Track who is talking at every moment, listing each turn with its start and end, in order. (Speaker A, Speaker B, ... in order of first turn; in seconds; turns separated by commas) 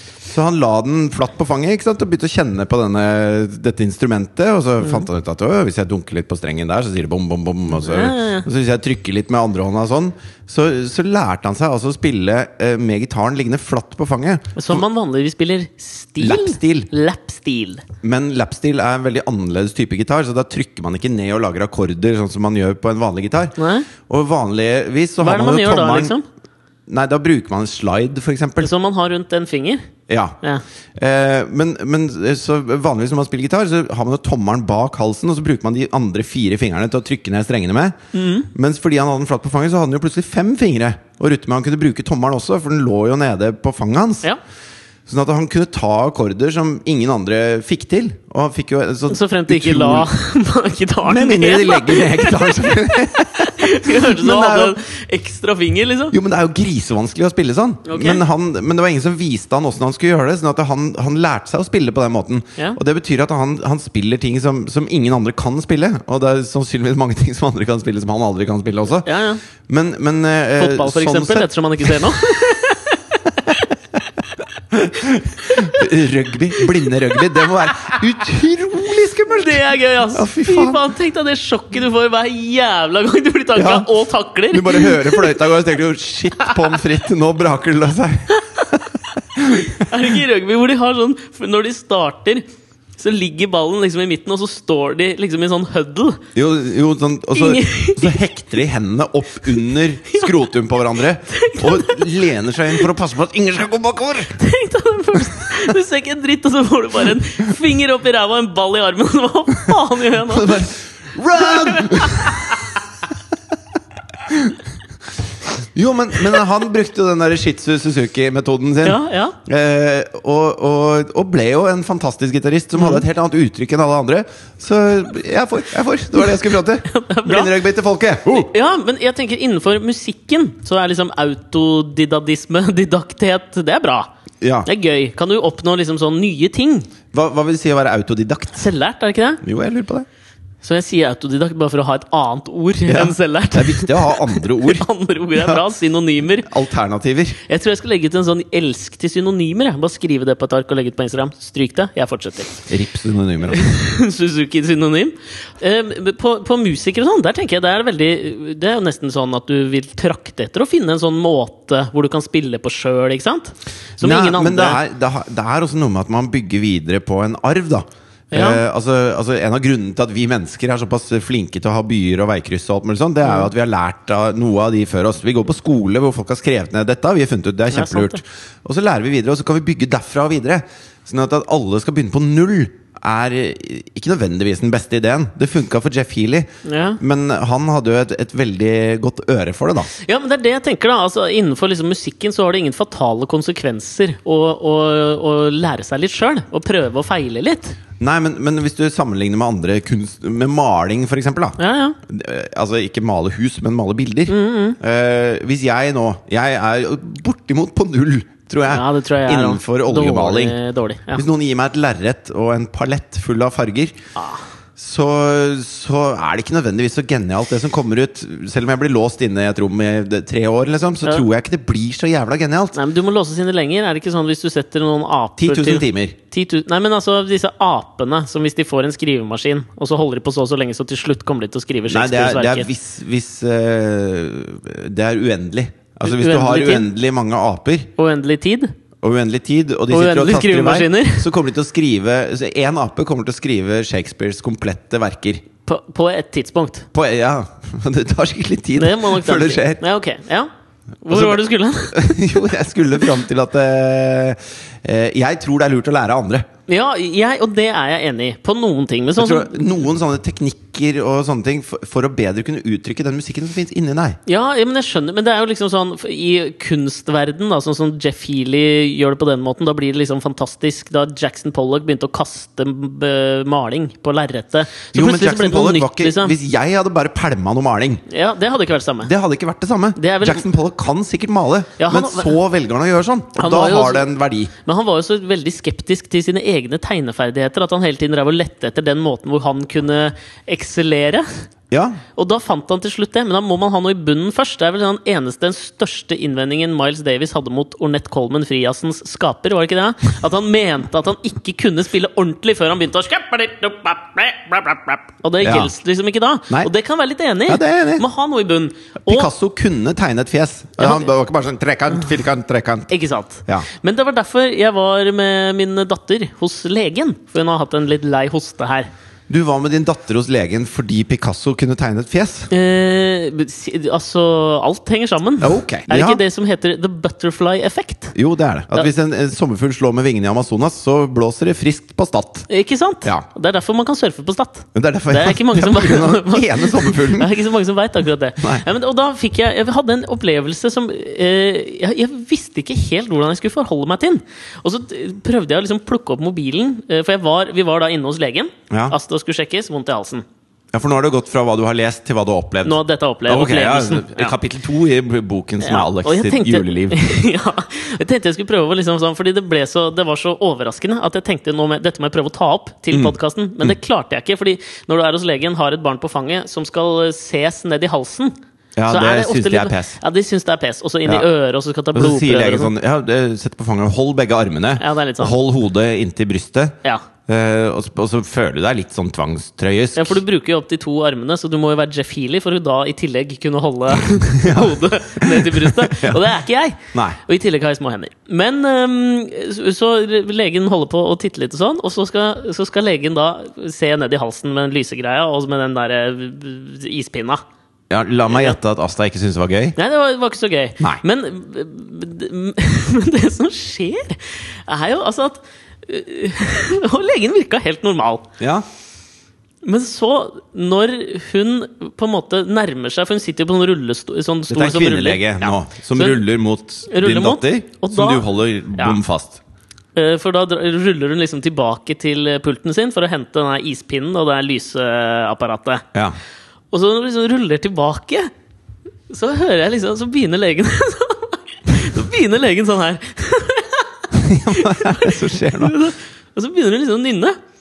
Speaker A: 0.2-14.8, Speaker B: 4.8-5.1, Speaker B: 7.7-8.5, Speaker B: 14.6-17.8, Speaker A: 16.2-16.9, Speaker A: 18.0-26.1, Speaker B: 23.6-23.9, Speaker B: 25.2-26.2, Speaker A: 26.9-28.7, Speaker B: 28.6-29.9, Speaker A: 30.1-30.4, Speaker A: 31.0-38.0, Speaker B: 38.1-38.5, Speaker A: 38.5-44.3, Speaker A: 45.1-50.1, Speaker B: 49.1-56.1, Speaker A: 51.1-54.8, Speaker A: 56.1-69.1, Speaker B: 57.9-58.2, Speaker B: 69.0-69.4, Speaker A: 69.7-72.5, Speaker B: 70.6-73.7, Speaker A: 74.7-79.6, Speaker B: 75.4-75.9, Speaker B: 76.6-78.0, Speaker B: 79.3-85.4, Speaker A: 80.1-80.8, Speaker A: 83.5-89.9, Speaker B: 86.4-86.8, Speaker B: 88.3-88.7, Speaker B: 89.5-92.5, Speaker B: 93.0-96.2, Speaker A: 96.3-104.4, Speaker B: 97.3-98.2, Speaker B: 100.1-100.4, Speaker B: 101.3-102.8, Speaker B: 104.4-110.7, Speaker A: 110.3-112.6, Speaker B: 111.3-112.7, Speaker A: 114.3-114.6, Speaker A: 115.7-128.5, Speaker B: 118.8-119.4, Speaker B: 122.8-123.0, Speaker B: 126.2-127.6, Speaker B: 128.3-134.1, Speaker A: 134.4-134.7, Speaker B: 134.7-136.9, Speaker A: 137.1-138.7, Speaker B: 138.6-139.4, Speaker A: 139.4-140.1, Speaker B: 140.6-146.5, Speaker A: 142.9-145.7, Speaker A: 146.4-147.4, Speaker B: 147.5-152.7, Speaker A: 152.7-153.7, Speaker B: 153.5-164.8, Speaker A: 164.0-186.5, Speaker B: 168.3-168.6, Speaker B: 177.7-178.2, Speaker B: 186.7-187.0, Speaker A: 187.0-189.9, Speaker B: 190.0-197.8, Speaker A: 198.0-210.6, Speaker B: 201.6-202.0, Speaker B: 204.3-204.8, Speaker B: 208.7-211.2, Speaker A: 211.2-214.0, Speaker B: 214.2-214.4, Speaker A: 214.8-222.8, Speaker B: 222.8-232.7, Speaker A: 225.4-226.2, Speaker A: 231.9-237.9, Speaker B: 236.1-236.9, Speaker B: 238.0-238.7, Speaker A: 239.0-245.4, Speaker B: 239.9-241.3, Speaker B: 245.7-246.9, Speaker A: 246.9-249.8, Speaker B: 248.8-250.5, Speaker B: 251.0-252.3, Speaker A: 251.1-256.5, Speaker B: 256.7-259.6, Speaker A: 259.2-264.2, Speaker B: 264.3-276.4, Speaker A: 274.9-278.0, Speaker B: 278.1-279.1, Speaker A: 279.0-284.5, Speaker B: 280.0-280.4, Speaker B: 281.8-282.4, Speaker B: 283.4-284.1, Speaker B: 284.6-291.3, Speaker A: 291.7-292.0, Speaker B: 292.2-309.3, Speaker A: 305.4-305.7, Speaker A: 307.5-308.1, Speaker A: 309.1-312.9, Speaker B: 310.8-311.1, Speaker B: 312.9-318.9, Speaker A: 319.3-322.5, Speaker B: 322.5-328.1, Speaker A: 325.4-326.2, Speaker A: 328.1-332.5, Speaker B: 332.5-350.2, Speaker A: 334.8-337.3, Speaker A: 338.4-338.7, Speaker A: 348.7-349.0, Speaker A: 350.7-357.0, Speaker B: 352.6-354.3, Speaker B: 355.6-368.3, Speaker A: 362.9-363.7, Speaker A: 368.8-370.0, Speaker B: 368.9-372.7, Speaker A: 371.9-380.2, Speaker B: 374.8-375.4, Speaker B: 380.0-397.4, Speaker A: 384.1-386.3, Speaker A: 386.9-387.2, Speaker A: 397.9-399.8, Speaker B: 398.3-398.6, Speaker B: 399.8-408.3, Speaker A: 408.4-408.7, Speaker B: 409.6-416.2, Speaker A: 414.5-419.4, Speaker B: 416.9-419.0, Speaker B: 420.0-425.9, Speaker B: 426.7-428.3, Speaker B: 429.1-437.4, Speaker A: 434.1-435.8